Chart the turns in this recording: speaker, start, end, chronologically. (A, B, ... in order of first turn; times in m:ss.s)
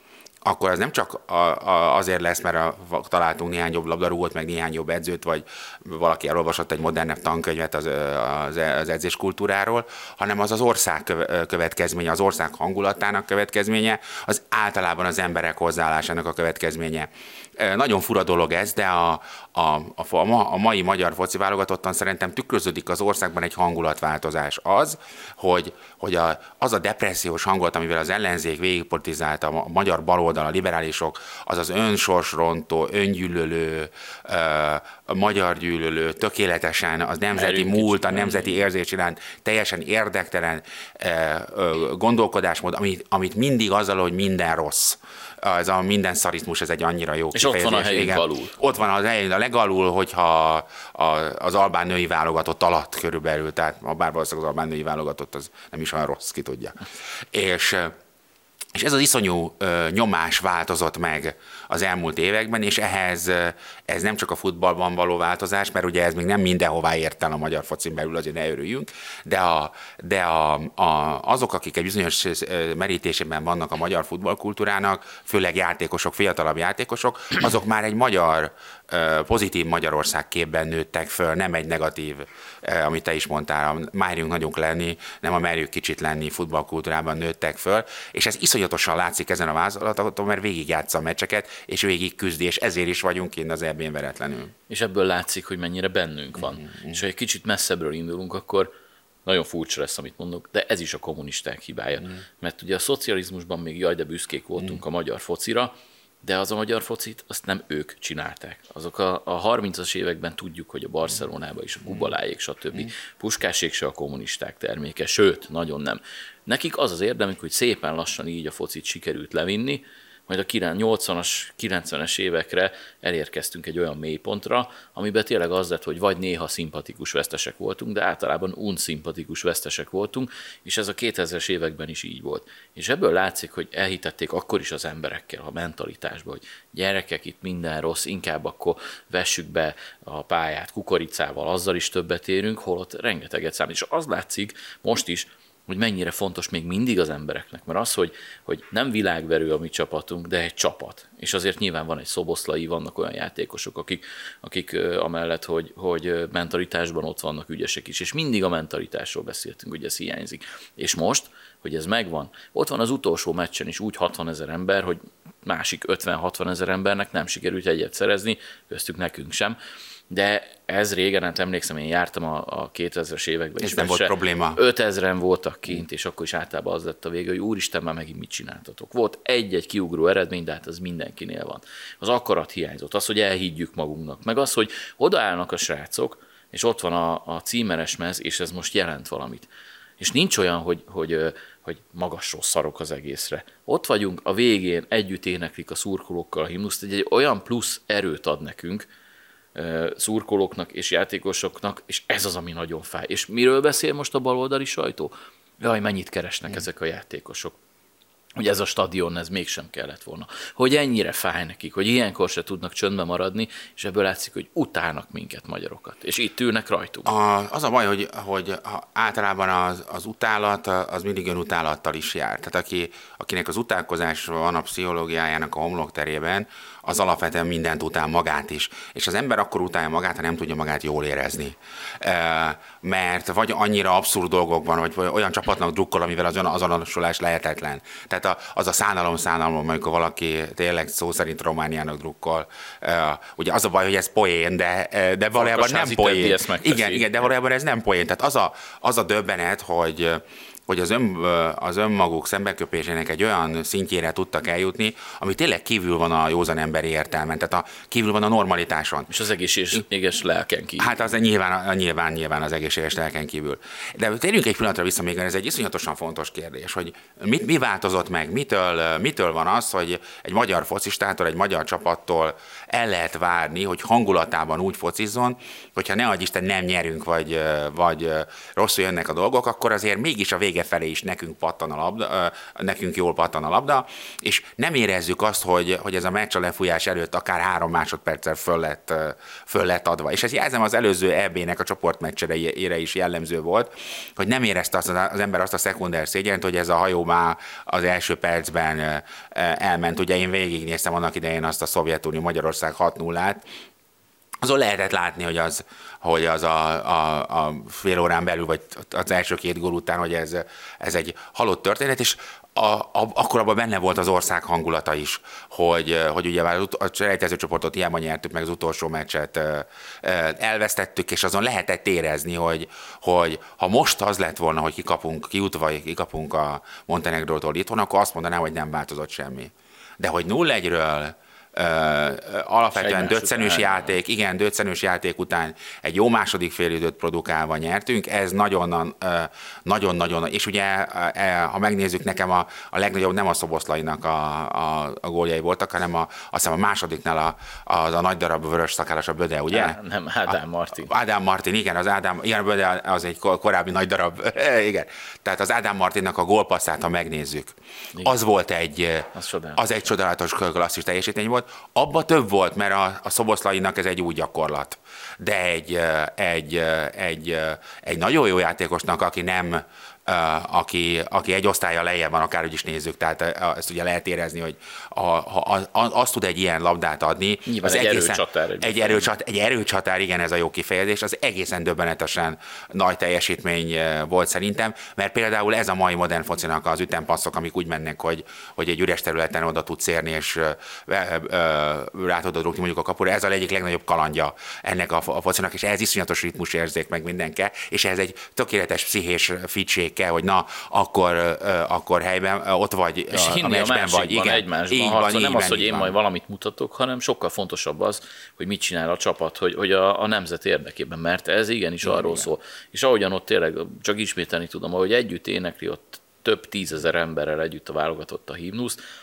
0:00.4-0:56.8 A
0:37.3-0:38.6 B
0:47.4-0:48.6 B
0:57.3-0:58.0 A
0:58.8-1:34.5 A
1:34.7-1:38.7 B
1:36.7-1:37.0 A
1:39.3-2:49.6 B
2:50.1-3:09.5 B
2:53.6-2:54.6 A
3:10.0-3:18.9 B
3:19.6-3:27.6 B
3:28.4-3:37.1 B
3:37.1-4:19.1 A
4:05.4-4:07.2 B
4:19.1-4:21.0 B
4:20.8-5:03.4 A
5:04.4-5:49.8 A
5:32.8-5:34.0 B
5:49.5-5:50.9 B
5:50.8-6:46.0 A
5:59.1-5:59.6 B
6:17.5-6:19.1 B
6:43.1-6:58.8 B
6:51.8-6:52.3 A